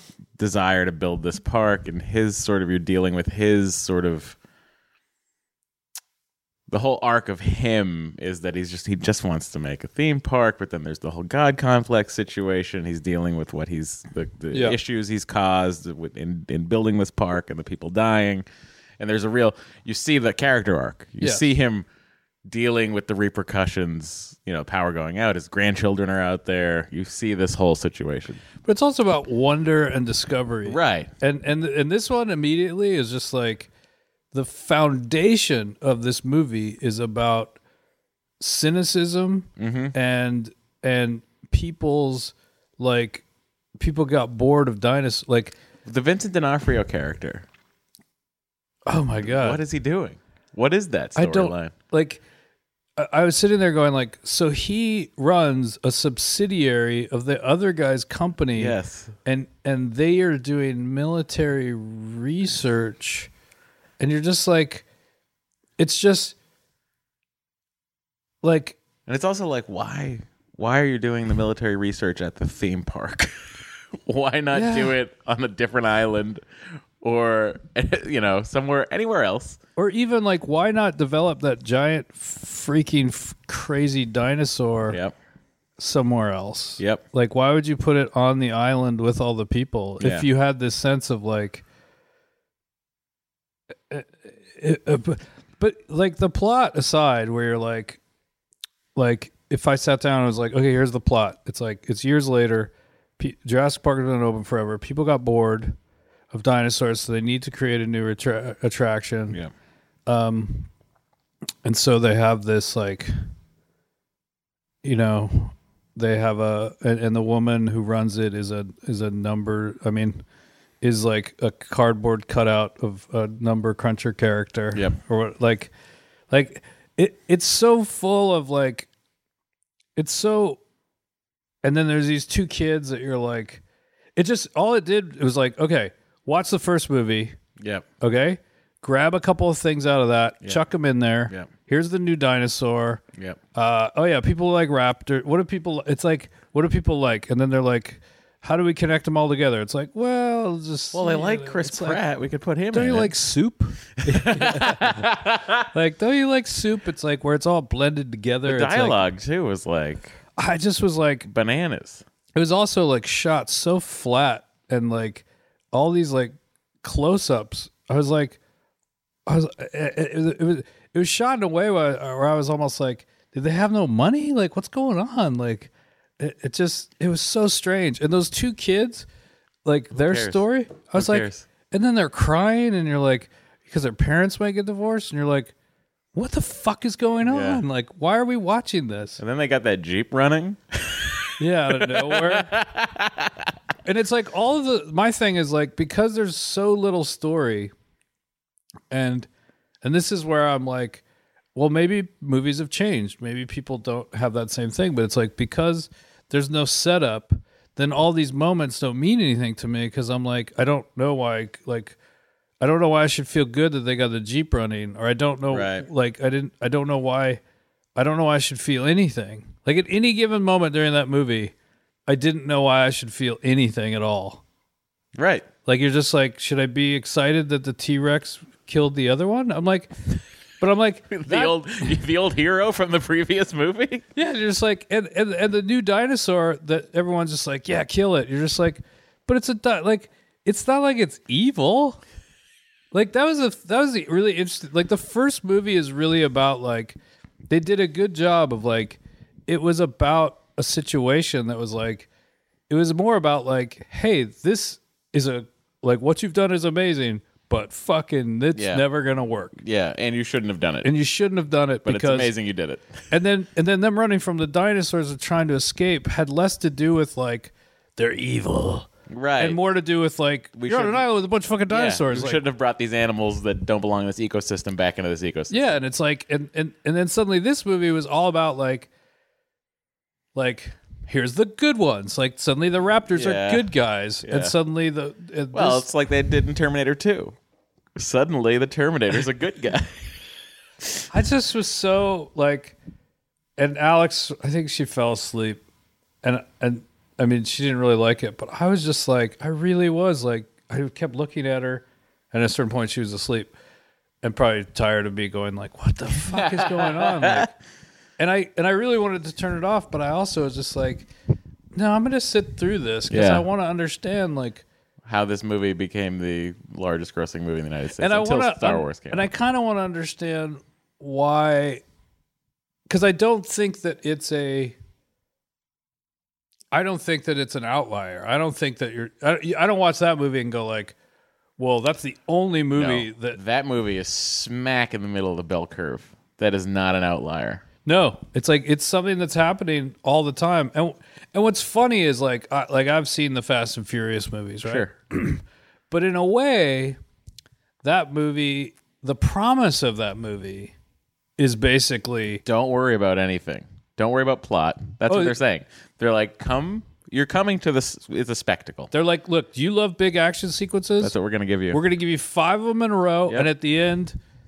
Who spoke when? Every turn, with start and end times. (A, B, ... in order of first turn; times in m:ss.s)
0:00.4-0:04.4 A
0:06.7-0:18.4 A
0:19.0-0:21.9 A
0:21.2-0:21.5 B
0:22.5-0:28.4 A
0:28.6-0:33.7 B
0:30.7-0:31.1 A
0:34.3-0:37.6 B
0:38.4-0:43.2 B
0:39.6-0:40.0 A
0:43.8-0:45.6 B
0:45.9-0:47.5 A
0:48.9-0:49.6 B
0:49.2-0:51.7 A
0:51.2-0:52.2 B
0:53.0-1:03.3 B
0:58.6-0:59.1 A
1:04.0-1:04.8 B
1:05.8-1:06.4 B
1:08.4-1:08.8 B
1:09.1-1:13.3 A
1:14.1-1:16.4 A
1:14.5-1:15.0 B
1:17.0-1:19.6 A
1:19.8-1:25.0 B
1:24.9-1:25.1 A
1:25.8-1:31.6 B
1:30.0-1:30.3 A
1:33.9-1:38.0 B
1:39.0-1:45.8 B
1:46.3-1:49.4 B
1:50.1-1:50.7 B
1:51.6-1:53.1 B
1:54.8-2:00.2 B
2:00.8-2:05.7 B
2:06.3-2:08.9 B
2:10.0-2:10.6 B
2:11.6-2:13.6 B
2:14.2-2:17.4 B
2:17.6-2:17.8 A
2:18.0-2:23.0 B
2:23.5-2:32.0 B
2:30.9-2:33.1 A
2:32.7-2:35.1 B
2:34.0-2:35.7 A
2:35.7-2:39.0 B
2:38.4-2:40.2 A
2:40.4-2:41.3 B
2:41.3-2:42.0 A
2:42.4-2:48.4 B
2:49.3-2:59.1 B
2:59.6-3:05.5 B
2:59.9-3:00.4 A
3:01.0-3:01.5 A
3:06.1-3:09.2 B
3:07.2-3:07.6 A
3:09.2-3:13.5 A
3:11.4-3:12.5 B
3:13.8-3:17.7 B
3:18.9-3:19.3 B
3:19.8-3:21.0 B
3:21.6-3:32.0 B
3:32.6-3:37.4 B
3:35.5-3:35.9 A
3:38.0-3:41.5 B
3:42.1-3:44.4 B
3:45.2-3:45.5 A
3:45.7-3:49.9 B
3:50.6-3:51.9 B
3:51.1-3:54.1 A
3:54.2-4:02.0 B
4:02.9-4:07.0 B
4:07.5-4:12.1 B
4:12.7-4:19.6 B
4:18.6-4:18.8 A
4:19.6-4:20.9 A
4:20.8-4:22.3 B
4:21.9-4:23.0 A
4:23.1-4:32.4 B
4:29.1-4:29.6 A
4:30.6-4:31.1 A
4:31.7-4:35.8 A
4:35.5-4:38.9 B
4:40.4-4:45.9 B
4:43.1-4:43.7 A
4:44.2-4:44.5 A
4:45.5-4:47.4 A
4:48.0-4:50.1 A
4:51.1-4:52.8 B
4:53.6-4:55.6 B
4:56.2-5:03.5 B
5:04.2-5:07.5 B
5:06.3-5:07.5 A
5:08.2-5:11.1 B
5:11.7-5:14.6 B
5:13.1-5:13.4 A
5:15.1-5:19.3 A
5:18.0-5:21.8 B
5:22.9-5:24.8 B
5:26.7-5:31.0 B
5:31.6-5:33.4 B
5:32.8-5:37.6 A
5:37.8-5:47.0 B
5:44.6-5:44.9 A
5:47.8-5:50.7 B
5:51.4-5:52.4 B
5:52.4-5:58.9 A
5:55.1-5:55.4 B
5:58.9-6:01.1 B
6:01.0-6:01.8 A
6:01.7-6:04.2 B